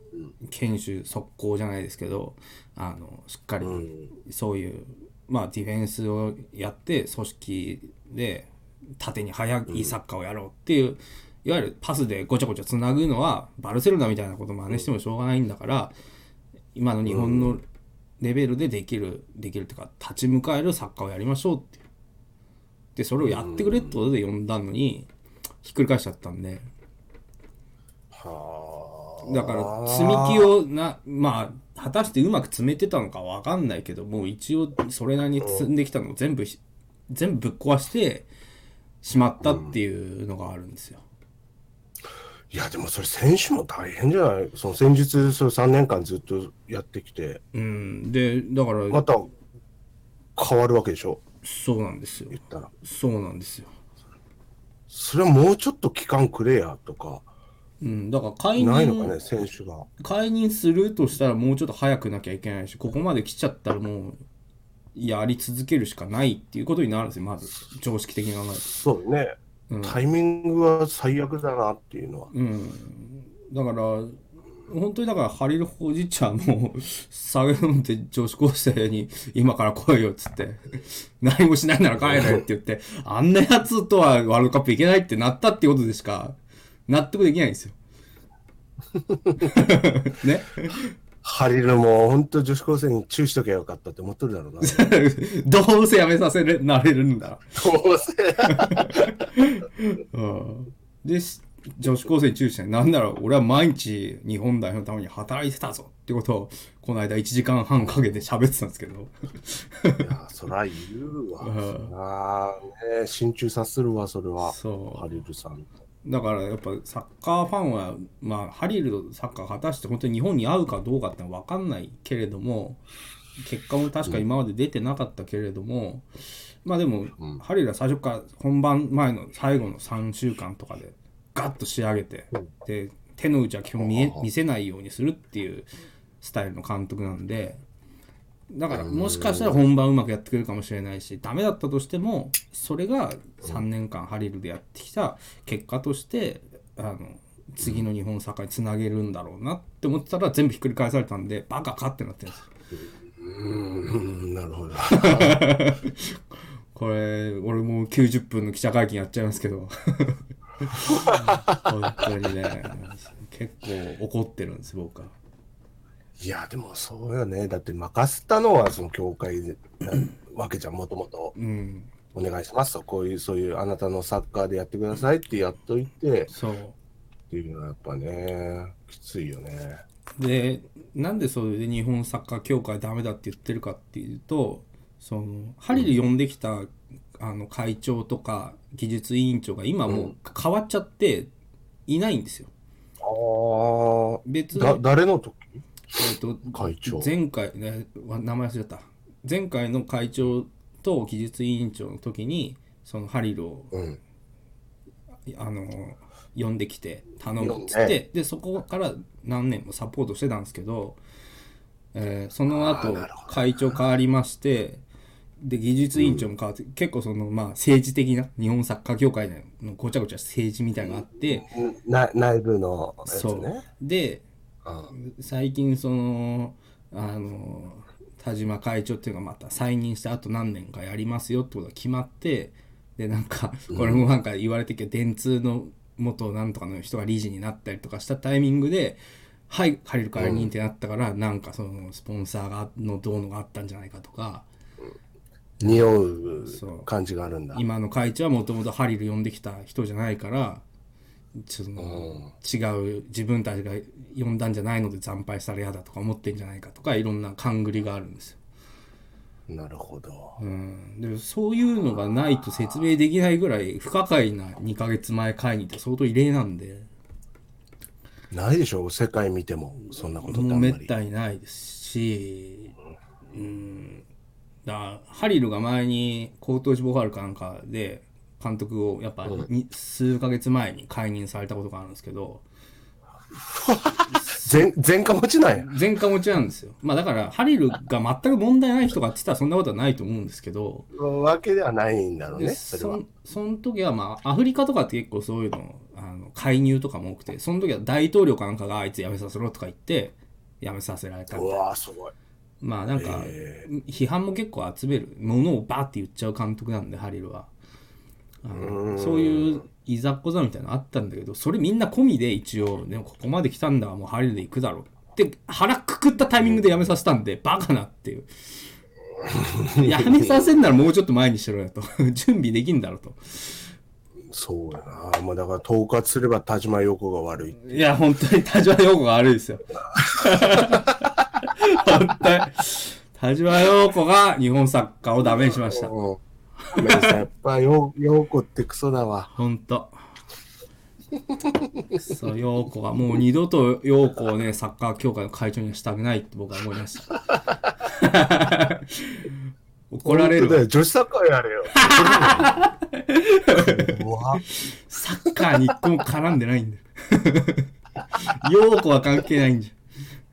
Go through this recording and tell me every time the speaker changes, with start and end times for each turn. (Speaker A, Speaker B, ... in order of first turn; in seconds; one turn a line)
Speaker A: 0.4-15.9
Speaker B: 3.6-4.1
Speaker B: 9.7-9.9
Speaker A: 16.7-17.6
Speaker B: 17.1-17.5
Speaker A: 18.2-21.8
Speaker A: 22.9-25.1
Speaker B: 23.2-24.0
Speaker A: 25.6-26.7
Speaker B: 28.1-30.5
Speaker A: 29.2-38.3
Speaker B: 35.4-35.7
Speaker A: 39.0-41.0
Speaker B: 39.4-39.7
Speaker B: 42.5-47.4
Speaker A: 47.5-49.0
Speaker B: 48.9-49.3
Speaker B: 50.4-51.2
Speaker A: 51.4-53.7
Speaker B: 52.3-52.7
Speaker B: 54.9-57.2
Speaker A: 57.8-59.1
Speaker B: 58.5-59.9
Speaker A: 60.0-64.2
Speaker A: 64.9-68.7
Speaker B: 68.6-72.3
Speaker A: 69.7-70.0
Speaker A: 72.3-86.4
Speaker B: 82.0-82.4
Speaker A: 86.9-87.8
Speaker B: 89.0-89.5
Speaker A: 89.4-90.9
Speaker B: 91.2-94.9
Speaker A: 94.6-97.5
Speaker B: 97.5-99.1
Speaker A: 98.5-110.1
Speaker B: 107.8-108.2
Speaker B: 110.0-115.7
Speaker A: 111.4-111.9
Speaker A: 114.4-115.2
Speaker A: 116.0-122.8
Speaker A: 123.4-126.1
Speaker A: 126.6-135.7
Speaker B: 133.8-134.2
Speaker A: 136.2-137.6
Speaker A: 138.5-152.5
Speaker B: 138.7-139.6
Speaker B: 152.7-155.4
Speaker A: 154.9-156.2
Speaker A: 156.7-165.1
Speaker B: 160.8-161.6
Speaker B: 166.2-171.3
Speaker A: 171.3-171.9
Speaker B: 172.1-176.3
Speaker A: 176.3-176.8
Speaker B: 177.3-179.8
Speaker A: 180.2-191.3
Speaker B: 189.9-190.1
Speaker A: 191.9-192.5
Speaker B: 193.0-195.6
Speaker A: 194.2-194.8
Speaker A: 195.9-203.7
Speaker B: 196.5-197.1
Speaker B: 203.7-204.0
Speaker A: 205.3-211.0
Speaker B: 207.4-208.0
Speaker A: 211.9-214.8
Speaker B: 212.5-213.8
Speaker A: 215.4-221.5
Speaker B: 215.9-216.3
Speaker B: 220.8-223.6
Speaker A: 223.1-224.2
Speaker B: 224.6-224.9
Speaker A: 224.9-244.5
Speaker B: 233.7-234.1
Speaker B: 240.2-240.5
Speaker B: 245.6-247.6
Speaker A: 246.4-246.9
Speaker A: 247.5-250.6
Speaker A: 251.4-258.4
Speaker B: 251.8-252.3
Speaker B: 259.5-260.4
Speaker A: 260.4-266.9
Speaker B: 268.3-270.9
Speaker A: 270.2-272.7
Speaker A: 273.3-274.1
Speaker A: 274.6-282.4
Speaker B: 283.4-285.7
Speaker A: 284.1-284.7
Speaker A: 285.6-290.9
Speaker B: 290.9-293.0
Speaker A: 292.3-301.6
Speaker B: 301.3-302.1
Speaker A: 302.6-307.5
Speaker B: 302.9-303.7
Speaker A: 308.4-318.3
Speaker B: 308.5-309.6
Speaker B: 319.2-320.6
Speaker A: 319.8-323.7
Speaker B: 324.3-327.6
Speaker A: 327.6-335.9
Speaker B: 330.2-330.8
Speaker B: 335.5-336.2
Speaker A: 336.6-337.2
Speaker B: 336.7-339.3
Speaker A: 339.3-340.0
Speaker B: 341.3-341.8
Speaker A: 341.9-347.2
Speaker A: 347.8-349.4
Speaker A: 349.9-350.6
Speaker B: 350.0-352.6
Speaker A: 351.7-359.8
Speaker B: 353.5-354.4